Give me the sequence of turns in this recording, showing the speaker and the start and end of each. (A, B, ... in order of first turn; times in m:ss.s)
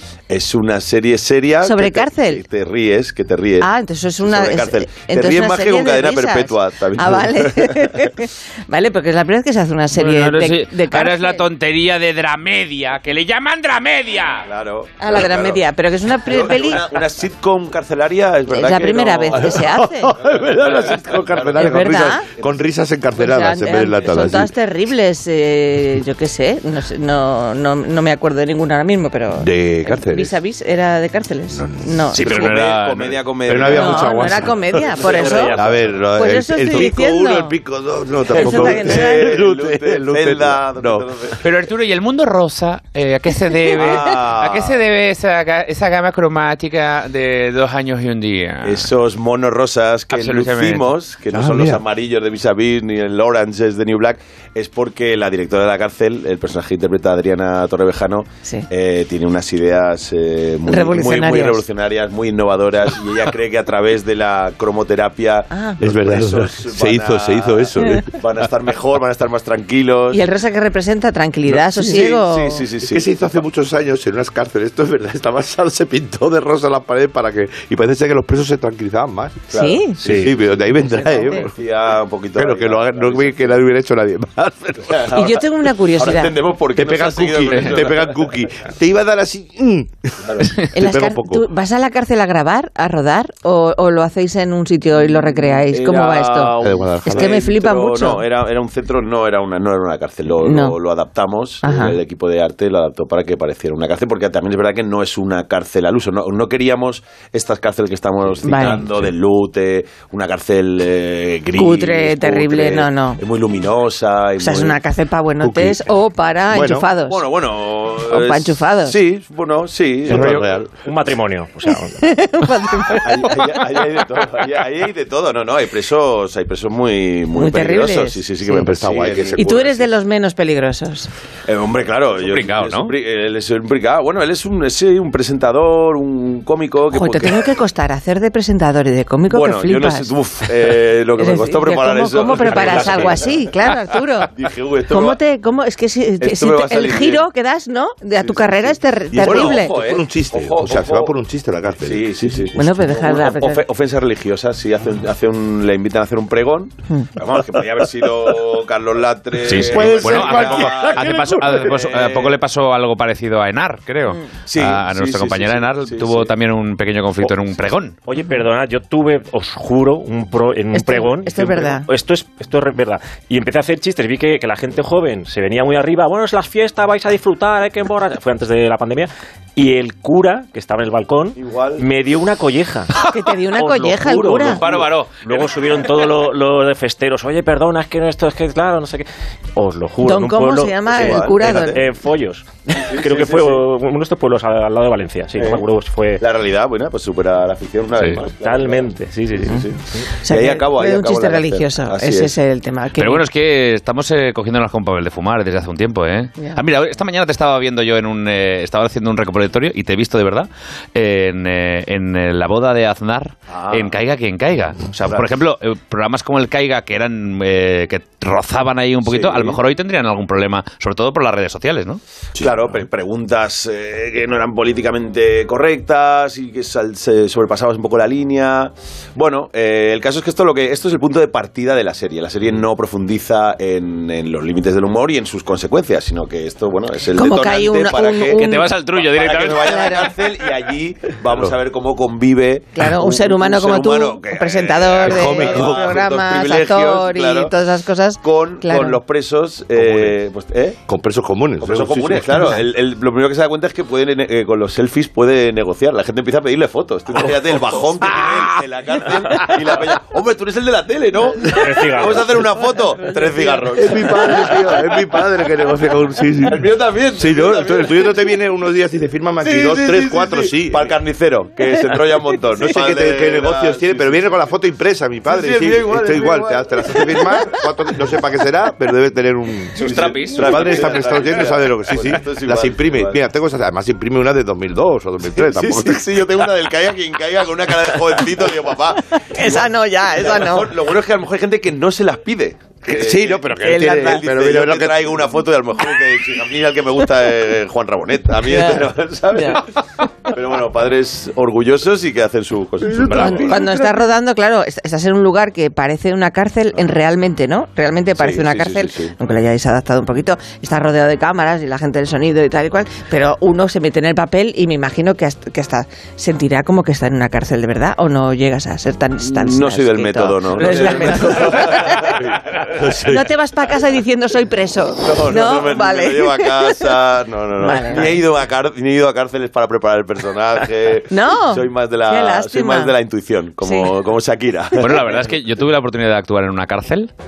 0:00.3-0:08.0 A
0:01.6-0:02.4 B
0:03.6-0:11.4 B
0:10.0-0:14.5 C
0:14.5-0:15.6 A
0:15.0-0:16.9 B
0:16.2-0:22.6 A
0:18.5-0:20.1 B
0:19.4-0:24.5 D
0:21.6-0:22.2 B
0:23.2-0:32.2 B
0:29.4-0:30.3 D
0:31.5-0:32.1 D
0:32.1-0:33.2 C
0:32.1-0:35.8 A
0:33.5-0:34.9 D
0:33.7-0:35.6 B
0:35.0-0:35.8 E
0:35.6-0:41.1 D
0:36.1-0:37.6 B
0:38.3-0:39.3 B
0:38.3-0:41.4 A
0:41.4-0:48.9 C
0:43.7-0:44.8 A
0:48.6-1:10.2 A
0:50.1-0:50.9 C
0:51.3-0:51.8 D
1:00.7-1:01.6 B
1:05.5-1:05.8 B
1:05.8-1:08.1 D
1:10.1-1:12.6 B
1:11.6-1:13.2 A
1:12.8-1:21.5 D
1:19.5-1:23.5 A
1:19.5-1:20.0 B
1:20.0-1:20.3 E
1:21.0-1:21.4 B
1:22.4-1:25.1 D
1:24.8-1:28.3 A
1:25.1-1:26.4 B
1:26.8-1:31.5 D
1:27.5-1:27.8 C
1:30.2-1:30.6 A
1:30.7-1:38.2 B
1:35.7-1:54.8 A
1:36.6-1:37.4 D
1:40.4-1:40.8 B
1:41.6-1:42.0 B
1:48.4-1:49.1 D
1:48.4-1:48.8 B
1:51.6-1:53.2 B
1:54.4-1:57.2 B
1:55.4-1:55.8 D
1:56.5-1:56.9 D
1:57.1-2:00.7 A
1:58.1-1:59.0 B
2:00.1-2:00.7 D
2:00.1-2:02.0 E
2:02.0-2:03.6 B
2:03.0-2:09.8 A
2:07.4-2:08.7 B
2:08.5-2:09.7 D
2:09.4-2:11.1 B
2:11.5-2:17.5 A
2:12.2-2:12.9 C
2:16.9-2:20.1 B
2:19.3-2:23.5 A
2:21.2-2:24.3 B
2:24.3-2:25.2 A
2:24.9-2:29.8 B
2:26.2-2:27.2 A
2:28.2-2:31.1 A
2:29.2-2:32.5 D
2:31.8-2:42.4 A
2:32.6-2:33.6 B
2:39.4-2:41.8 D
2:39.4-2:48.0 C
2:44.5-2:46.3 A
2:48.1-3:02.9 E
2:50.7-2:51.9 B
3:01.4-3:01.8 A
3:03.1-3:04.6 B
3:03.5-3:16.2 E
3:04.5-3:05.7 C
3:10.0-3:11.8 B
3:10.9-3:11.4 A
3:12.8-3:13.6 A
3:15.4-3:15.6 A
3:16.2-3:22.4 A
3:18.4-3:20.1 E
3:20.2-3:23.2 B
3:23.0-3:42.0 C
3:33.5-3:34.0 A
3:39.1-3:39.6 A
3:42.4-4:07.5 A
3:57.1-3:58.7 B
3:58.4-4:00.1 C
3:59.6-4:00.1 B
4:02.8-4:09.0 B
4:05.0-4:06.0 D
4:08.2-4:10.8 A
4:09.8-4:10.2 D
4:10.9-4:12.6 D
4:11.6-4:24.8 A
4:21.5-4:22.4 E
4:23.8-4:30.9 D
4:26.5-4:28.1 A
4:29.4-4:34.4 A
4:32.6-4:46.1 D
4:35.2-4:37.5 A
4:39.8-4:40.8 C
4:39.8-4:43.2 A
4:45.4-5:03.6 A
4:49.2-4:50.7 B
4:52.9-4:55.3 D
4:53.6-4:54.2 B
4:58.5-4:59.6 B
5:02.8-5:04.0 D
5:03.1-5:22.1 B
5:08.2-5:09.1 A
5:19.2-5:23.1 A
5:22.8-5:23.2 D
5:23.0-5:26.9 B
5:25.0-5:35.2 A
5:27.6-5:28.2 B
5:31.1-5:33.0 B
5:33.6-5:33.9 B
5:34.8-5:37.1 C